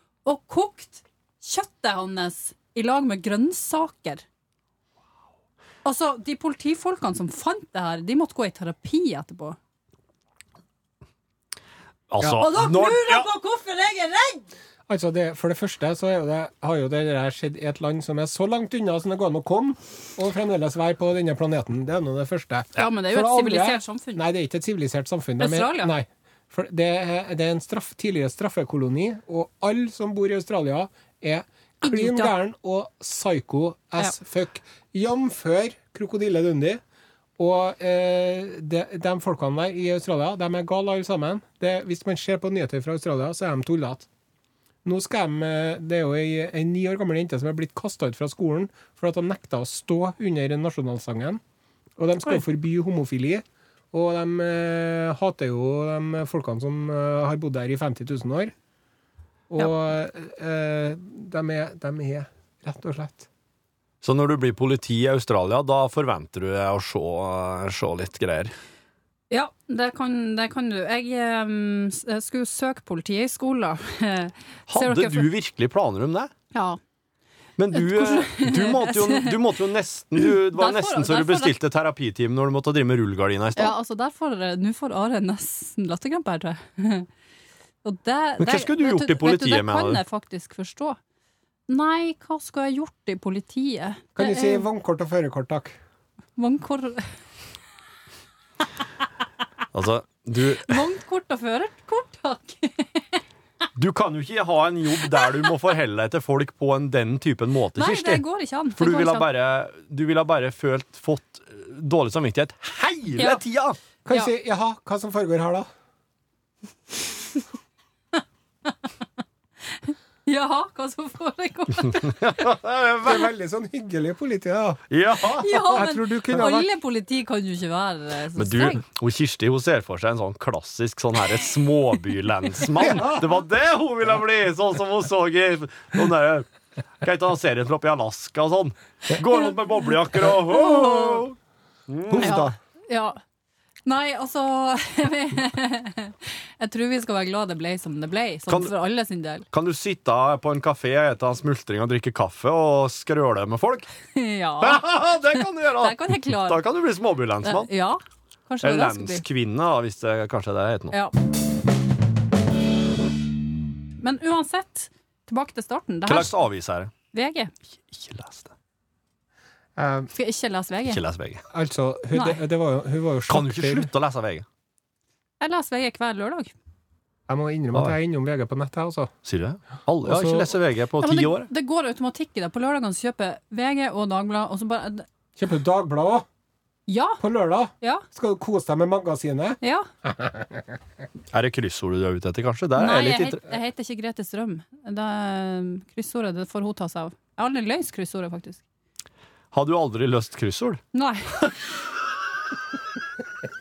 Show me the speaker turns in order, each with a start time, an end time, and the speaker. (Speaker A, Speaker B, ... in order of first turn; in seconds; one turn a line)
Speaker A: 0.2-4.2
Speaker A: 5.8-9.6
Speaker B: 12.1-13.3
Speaker A: 12.2-14.5
Speaker C: 14.9-36.8
Speaker A: 22.8-24.2
Speaker A: 25.4-25.9
Speaker A: 31.8-32.3
Speaker C: 37.4-44.1
Speaker C: 44.8-51.4
Speaker C: 52.0-58.5
Speaker C: 59.5-63.3
Speaker B: 64.0-68.5
Speaker A: 69.3-75.3
Speaker B: 74.7-76.3
Speaker A: 76.5-76.8
Speaker B: 77.6-83.8
Speaker A: 77.7-79.4
Speaker A: 80.2-81.5
Speaker A: 83.6-87.1
Speaker A: 87.8-91.0
Speaker B: 88.4-90.0
Speaker A: 91.7-94.7
Speaker C: 94.2-95.8
Speaker A: 96.4-97.1
Speaker B: 99.7-100.8
Speaker A: 100.7-103.2
Speaker B: 103.8-108.2
Speaker A: 107.8-109.3
Speaker B: 108.8-113.8
Speaker C: 114.0-115.7
Speaker A: 119.7-122.2
Speaker B: 122.0-123.2
Speaker C: 123.0-124.8
Speaker B: 124.9-126.5
Speaker A: 125.4-128.8
Speaker C: 125.7-126.7
Speaker B: 128.4-136.5
Speaker B: 137.0-141.4
Speaker A: 140.5-141.2
Speaker B: 141.9-142.4
Speaker C: 142.1-142.6
Speaker A: 142.2-143.2
Speaker A: 143.9-149.5
Speaker B: 149.5-153.9
Speaker A: 154.2-156.6
Speaker B: 154.6-157.7
Speaker A: 157.4-159.2
Speaker B: 158.6-161.0
Speaker A: 164.0-166.3
Speaker B: 166.1-166.9
Speaker A: 167.1-167.5
Speaker B: 167.9-168.5
Speaker C: 169.8-170.1
Speaker A: 170.1-171.0
Speaker B: 170.9-171.4
Speaker C: 171.5-173.9
Speaker A: 172.1-172.4
Speaker B: 173.3-174.4
Speaker A: 175.4-176.5
Speaker C: 177.3-179.1
Speaker B: 179.2-181.5
Speaker C: 180.0-180.5
Speaker A: 181.0-185.1
Speaker C: 185.4-186.3
Speaker A: 186.9-187.2
Speaker C: 187.2-190.8
Speaker A: 189.6-189.9
Speaker B: 191.3-193.4
Speaker A: 192.8-198.6
Speaker B: 199.5-200.8
Speaker A: 200.9-201.5